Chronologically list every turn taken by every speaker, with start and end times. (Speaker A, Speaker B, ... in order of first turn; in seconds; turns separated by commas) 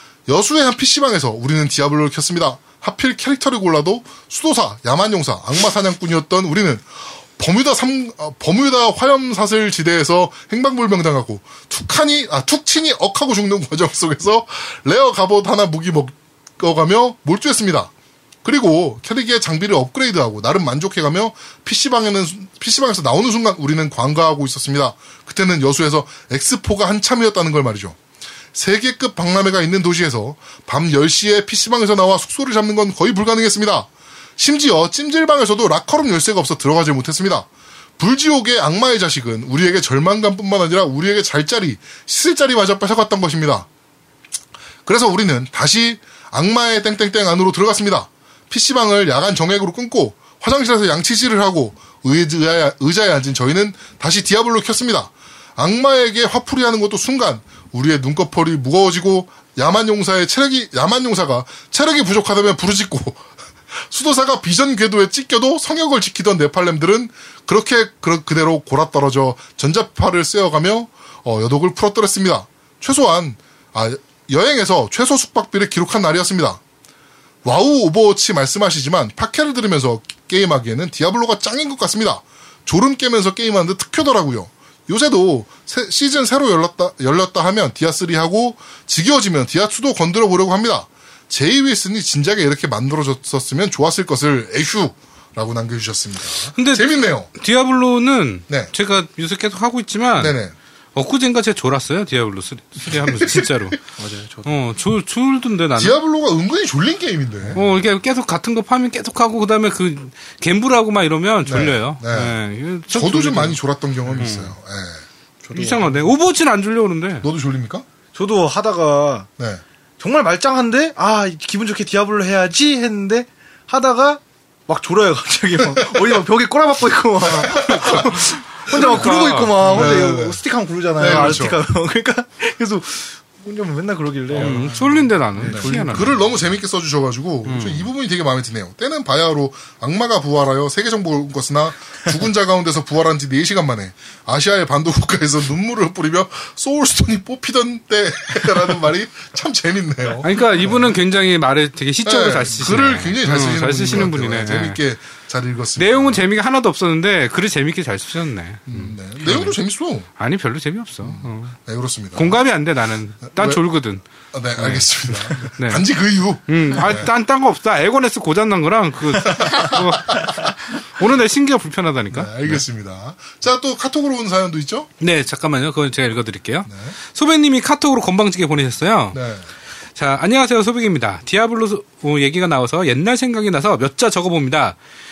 Speaker A: 0.3-6.9, Speaker A: 7.4-17.9, Speaker A: 18.4-27.9, Speaker A: 28.5-37.5, Speaker A: 38.0-43.7, Speaker A: 44.8-76.6, Speaker A: 77.4-97.3, Speaker B: 96.5-100.3, Speaker A: 100.2-100.5, Speaker B: 100.9-103.8, Speaker A: 103.0-103.5, Speaker C: 104.0-104.5, Speaker B: 104.4-106.0, Speaker A: 105.8-107.6, Speaker B: 107.5-114.5, Speaker A: 111.4-112.4, Speaker A: 112.9-116.0, Speaker B: 115.5-117.2, Speaker A: 117.2-117.8, Speaker C: 118.1-119.3, Speaker C: 120.0-135.7, Speaker A: 127.3-128.1, Speaker B: 127.6-130.0, Speaker A: 129.6-130.4, Speaker A: 130.9-131.6, Speaker B: 131.0-131.4, Speaker B: 134.3-136.2, Speaker A: 134.4-134.7, Speaker A: 135.4-150.9, Speaker B: 137.4-137.9, Speaker B: 150.2-154.8, Speaker A: 152.0-156.2, Speaker B: 155.8-159.5, Speaker A: 158.7-160.1, Speaker B: 160.2-161.6, Speaker A: 161.0-162.4, Speaker B: 162.1-164.0, Speaker A: 163.3-163.6, Speaker A: 164.3-167.1, Speaker B: 164.6-165.8, Speaker B: 166.5-172.6, Speaker A: 169.3-170.3, Speaker A: 172.1-174.9, Speaker B: 175.0-179.2, Speaker A: 176.7-176.9, Speaker A: 179.1-179.4, Speaker B: 179.9-184.8